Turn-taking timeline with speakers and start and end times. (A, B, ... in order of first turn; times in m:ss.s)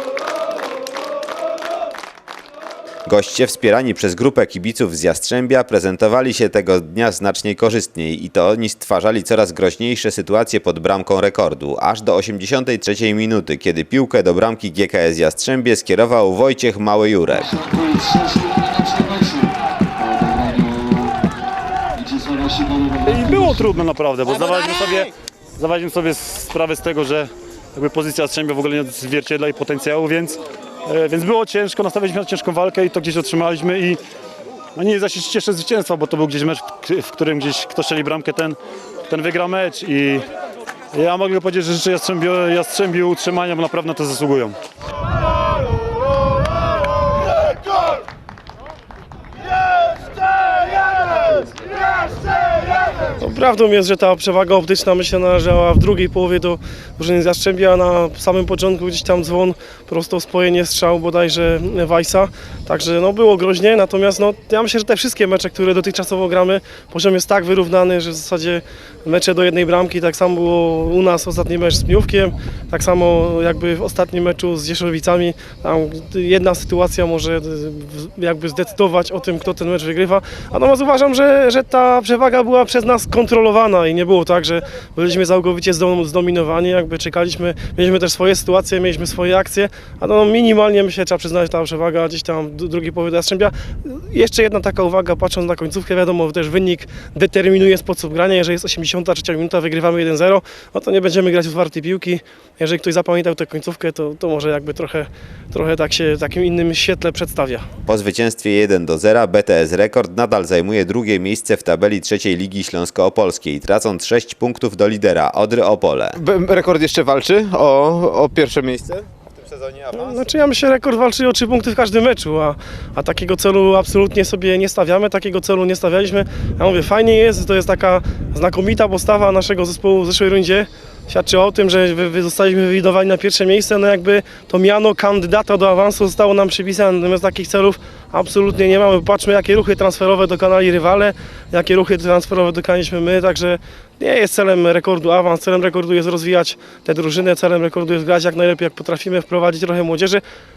0:03.1-0:17.6 A
0:22.3-0:34.0 B
0:34.8-0:38.6 B
0:39.1-0:40.3 B
0:40.9-0:44.6 B
0:53.2-1:47.7 C
1:47.9-1:56.2 A
1:56.2-1:59.1 D
1:59.2-2:00.4 A
1:59.9-2:30.2 C